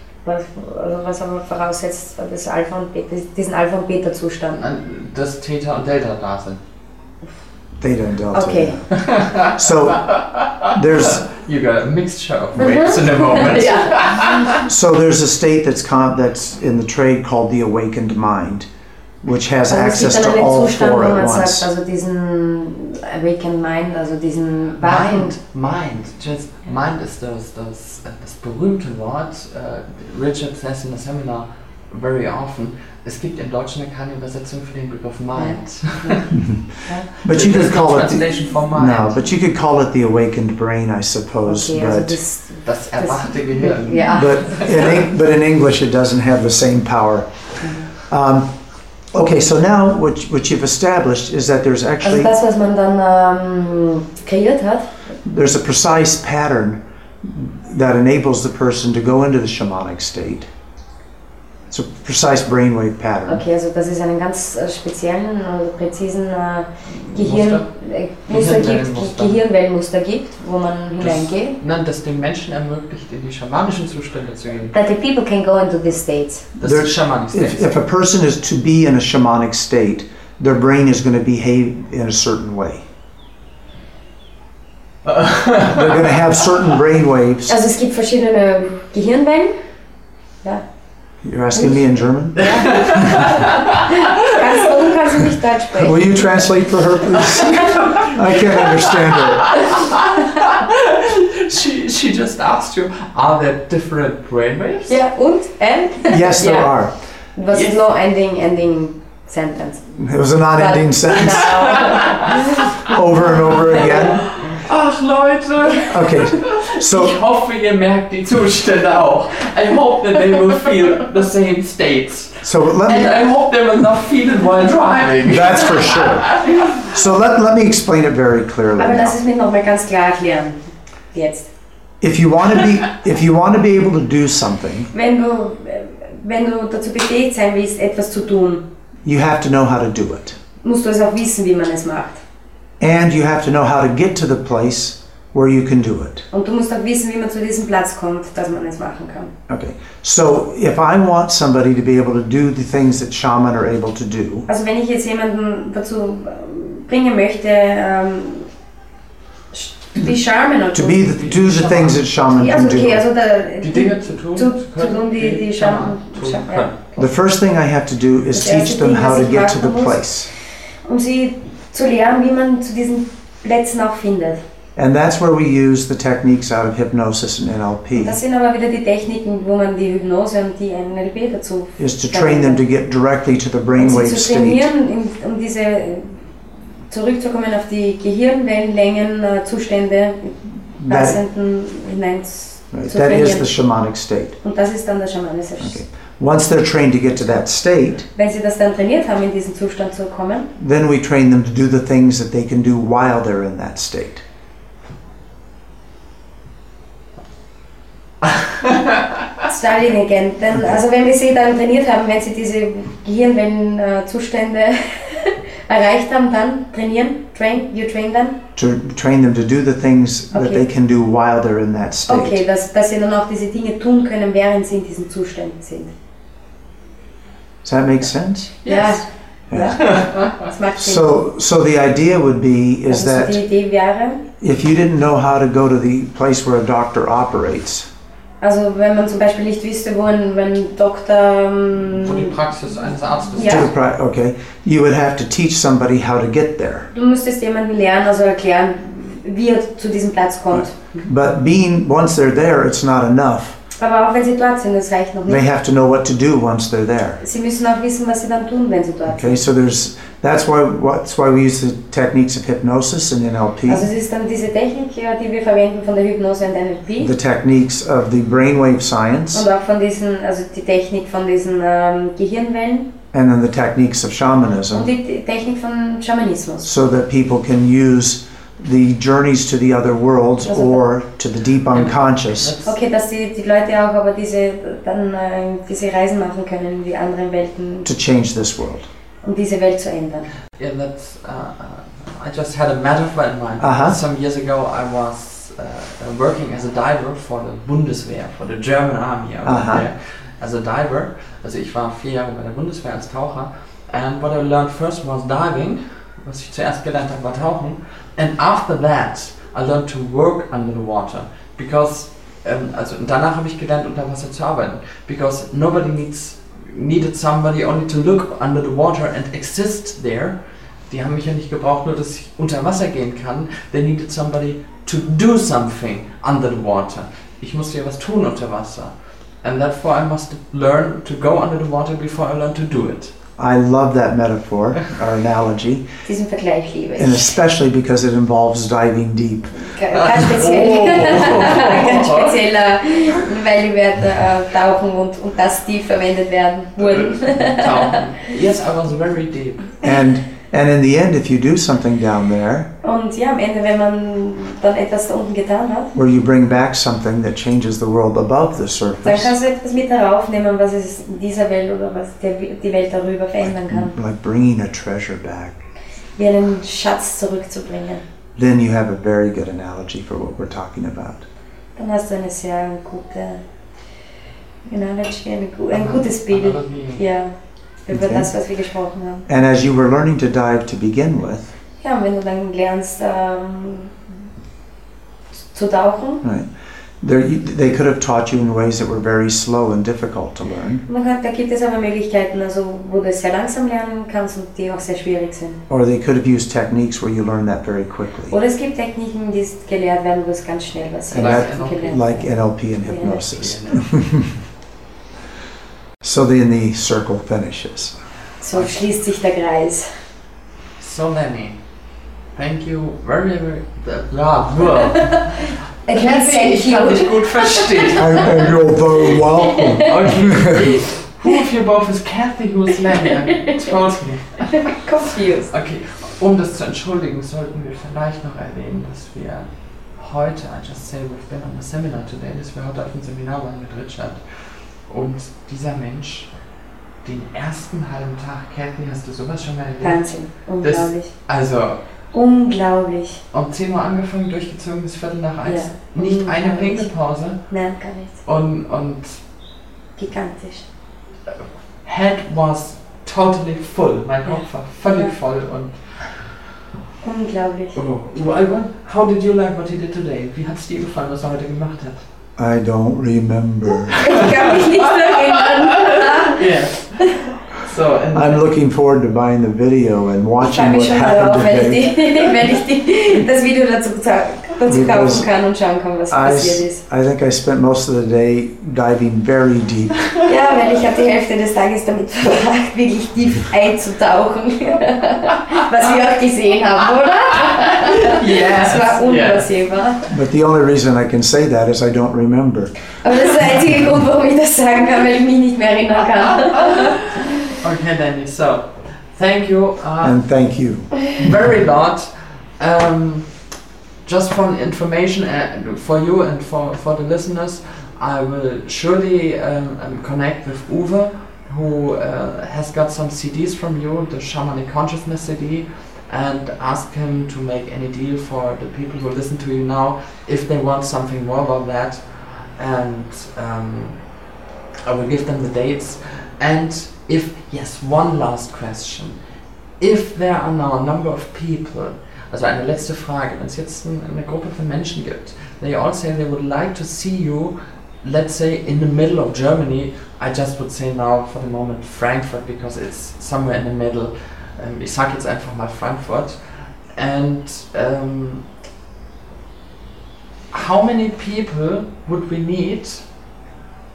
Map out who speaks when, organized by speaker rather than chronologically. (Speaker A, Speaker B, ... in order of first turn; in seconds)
Speaker A: 0.2-4.6, 8.3-8.8, 12.6-14.3, 19.7-25.3, 35.4-37.1, 41.4-44.7, 52.0-55.0, 63.3-71.6, 74.7-76.5, 87.5-89.6, 91.5-91.8, 92.3-96.2, 104.9-106.7, 107.3-109.8, 110.5-112.7, 128.8-130.6, 131.1-131.5, 134.9-138.6, 140.6-142.2, 146.3-149.3, 154.5-158.5, 159.5-161.1, 162.3-167.1, 168.3-170.1, 170.8-174.4, 177.9-182.6, 183.8-186.2, 186.9-193.5, 194.4-195.8, 198.2-200.5, 209.4-218.4, 220.3-220.6, 222.1-225.9, 228.6-231.1, 232.9-234.2, 238.4-242.3, 243.4-243.7, 246.9-251.1, 253.8-255.4, 257.2-259.4, 263.7-267.1, 269.3-272.9, 274.7-276.7, 280.4-280.8, 282.6-287.9, 289.2-290.3, 336.0-337.4, 339.5-348.1, 352.8-355.9, 359.0-363.9, 366.2-368.0, 371.8-373.4, 374.6-377.3, 377.8-379.2, 381.8-383.9, 385.5-386.2, 390.9-395.6, 398.3-402.3, 402.8-403.2, 408.4-409.9, 414.8-419.9, 424.5-425.5, 439.8-441.1, 442.1-443.2, 445.4-446.9, 447.5-448.2, 450.0-450.6, 454.8-455.1, 457.0-457.8, 464.0-466.4, 470.4-476.8, 480.2-490.0, 493.0-497.3
Speaker B: 4.5-6.6, 8.9-14.7, 24.8-36.3, 37.2-39.2, 42.6-44.9, 66.9-67.7, 68.3-69.4, 71.0-74.7, 76.6-77.7, 85.0-86.0, 92.4-94.8, 97.1-104.9, 107.5-107.8, 111.3-112.9, 113.6-126.8, 161.2-162.1, 163.6-166.8, 208.2-209.2, 228.6-229.0, 229.7-230.4, 242.0-243.7, 281.7-282.7, 290.6-320.4, 320.9-333.1, 339.9-342.4, 346.8-349.8, 375.7-377.0, 401.1-402.0, 403.1-403.9, 408.5-408.8, 410.8-411.6, 412.3-418.4, 419.8-424.8, 425.5-436.3, 437.0-441.8, 443.3-447.4, 448.2-449.2, 451.3-456.4, 457.7-462.0, 464.1-468.4, 487.5-489.5, 497.5-500.2, 501.1-503.4, 504.0-524.1, 524.8-529.2, 529.8-548.5, 550.5-553.0
Speaker C: 7.8-11.2, 14.6-18.7, 19.2-21.7, 36.3-36.6, 37.2-42.2, 44.1-47.3, 48.0-48.5, 49.1-52.3, 55.2-60.5, 61.7-63.4, 76.6-82.8, 85.7-87.5, 91.2-93.1, 95.7-99.6, 106.1-106.9, 110.0-112.0, 112.7-114.2, 115.9-117.2, 122.4-123.2, 125.2-129.1, 132.0-134.9, 139.0-140.4, 142.8-146.2, 149.5-154.4, 160.7-163.0, 167.0-170.3, 174.8-178.2, 181.8-184.7, 190.8-191.2, 192.7-194.4, 195.6-198.1, 200.6-204.2, 218.6-222.4, 227.6-228.6, 229.5-229.8, 230.8-233.4, 234.4-237.9, 243.4-246.9, 250.5-253.6, 255.3-257.2, 259.1-263.9, 267.0-269.5, 273.1-274.9, 276.6-282.5, 287.8-288.9, 293.6-294.0, 299.4-299.9, 333.4-335.8, 337.0-339.6, 349.8-352.7, 355.9-359.3, 363.7-365.6, 368.4-371.2, 377.9-378.3, 379.3-381.5, 386.2-386.5, 387.0-390.8, 395.7-398.4, 401.1-404.4, 406.0-408.0, 418.0-420.8, 462.4-464.2, 468.1-472.1, 474.7-475.3, 476.1-480.1, 490.1-492.7, 500.0-501.1